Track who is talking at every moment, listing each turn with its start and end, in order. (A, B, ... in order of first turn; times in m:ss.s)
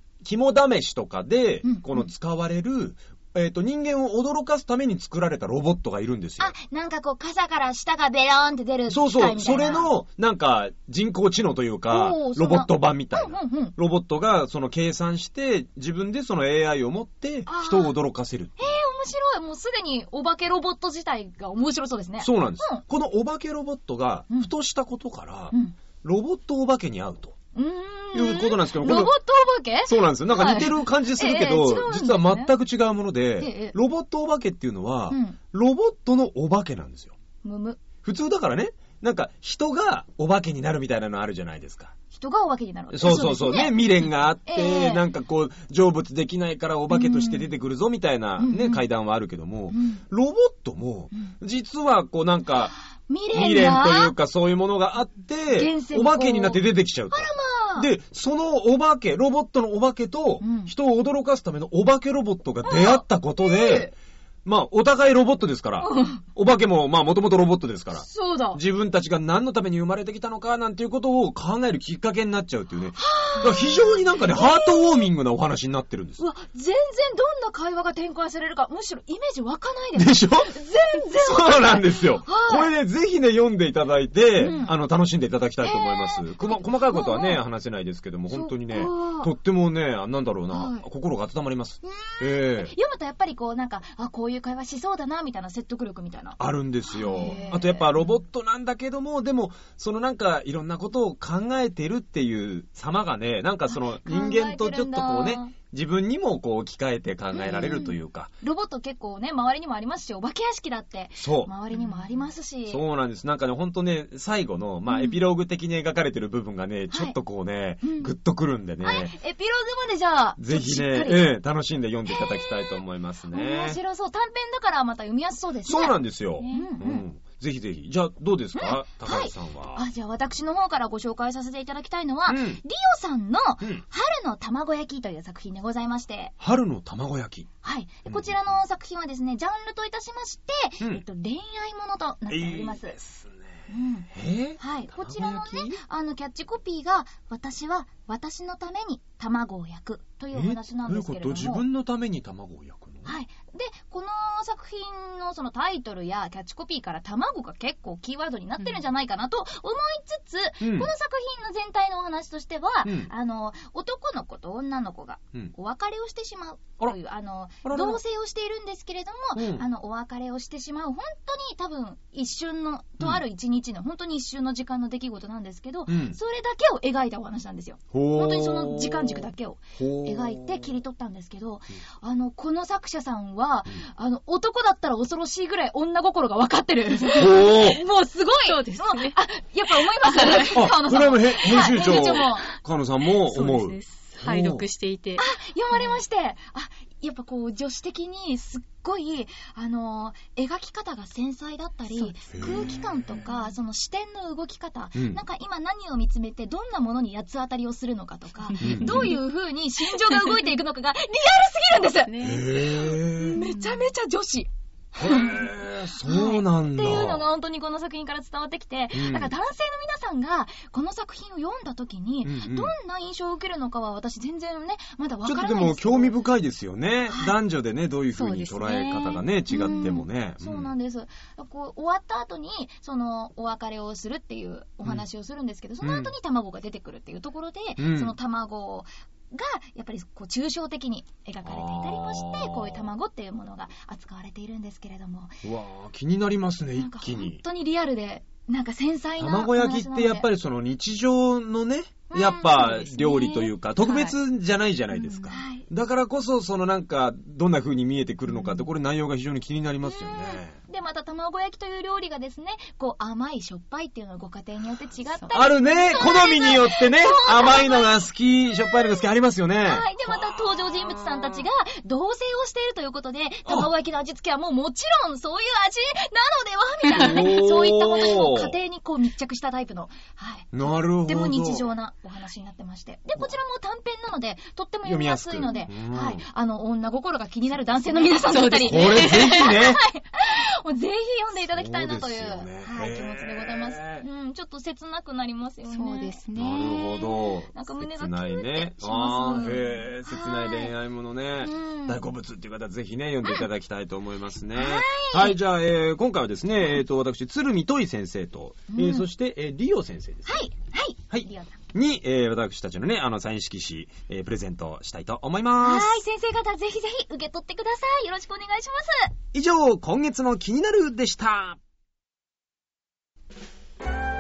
0:00.2-0:06.6 A
0:01.6-0:02.1 B
0:06.4-0:09.9 B
0:08.9-0:18.7 A
0:11.9-0:13.8 B
0:17.5-0:18.0 B
0:18.6-0:22.8 B
0:22.2-0:27.4 A
0:27.6-0:32.5 B
0:28.1-0:29.1 A
0:29.9-0:37.2 A
0:33.4-0:33.8 B
0:35.1-0:35.4 B
0:37.4-0:37.8 B
0:38.0-0:41.9 A
0:42.1-0:43.9 B
0:42.9-0:52.7 A
0:44.4-0:45.0 B
0:46.9-0:47.5 B
0:48.4-0:48.8 B
0:49.7-0:50.0 B
0:53.1-0:54.1 B
0:53.3-1:03.9 A
0:55.5-0:57.9 B
1:00.4-1:00.7 B
1:02.6-1:03.9 B
1:04.4-1:16.2 A
1:05.8-1:06.2 B
1:08.0-1:08.6 B
1:13.0-1:15.1 B
1:16.2-1:22.7 B
1:20.0-1:20.5 A
1:21.1-1:32.7 A
1:24.4-1:24.7 B
1:25.6-1:27.4 B
1:28.3-1:29.3 B
1:30.5-1:30.8 B
1:31.8-1:38.0 B
1:36.4-1:48.3 A
1:43.7-1:45.5 B
1:47.4-1:52.8 B
1:51.2-1:51.5 A
1:52.7-1:59.1 A
1:54.9-1:55.2 B
1:57.8-1:58.1 B
1:58.8-2:01.3 B
2:00.4-2:03.8 A
2:02.1-2:02.8 B
2:03.3-2:07.0 B
2:05.6-2:09.8 A
2:06.4-2:06.7 C
2:08.6-2:16.3 B
2:12.3-2:12.6 A
2:16.4-2:17.5 A
2:17.6-2:23.0 B
2:18.1-2:18.5 A
2:22.3-2:23.6 A
2:23.7-2:31.6 B
2:24.1-2:25.8 A
2:30.3-2:33.1 A
2:33.0-3:12.5 B
2:40.6-2:40.9 A
2:42.8-2:43.1 A
2:47.6-2:48.0 A
2:49.4-2:49.6 A
2:55.9-2:56.2 A
2:57.9-3:00.7 A
3:07.2-3:07.8 A
3:08.4-3:09.2 C
3:10.1-3:10.5 C
3:10.5-3:14.7 A
3:11.7-3:12.3 C
3:13.3-3:15.2 C
3:15.2-3:46.2 B
3:21.9-3:22.2 C
3:22.3-3:22.8 A
3:25.0-3:25.2 A
3:28.5-3:29.2 C
3:28.6-3:29.2 A
3:32.1-3:32.8 C
3:32.2-3:33.4 A
3:33.4-3:33.8 C
3:35.0-3:37.2 A
3:38.9-3:39.3 A
3:42.2-3:42.7 A
3:45.2-3:50.7 A
3:48.2-3:49.9 C
3:49.5-4:05.4 B
3:55.8-3:56.1 A
3:57.8-3:58.1 A
4:01.4-4:02.9 A
4:05.4-4:07.4 A
4:06.8-4:10.3 B
4:09.2-4:20.6 A
4:12.1-4:13.1 B
4:12.5-4:14.1 C
4:15.0-4:15.3 C
4:15.3-4:15.6 B
4:19.9-4:28.0 B
4:25.3-4:30.4 A
4:29.6-5:00.7 B
4:36.9-4:38.6 A
4:40.5-4:41.7 A
4:44.9-4:46.2 A
4:48.0-4:49.6 C
4:48.6-4:49.8 A
4:51.5-4:54.1 A
4:55.7-4:56.8 C
4:56.4-5:10.4 A
5:01.4-5:02.0 B
5:04.5-5:05.4 B
5:08.7-5:09.1 B
5:10.3-5:11.6 B
5:11.1-5:16.0 A
5:15.6-5:19.1 B
5:19.3-5:21.6 A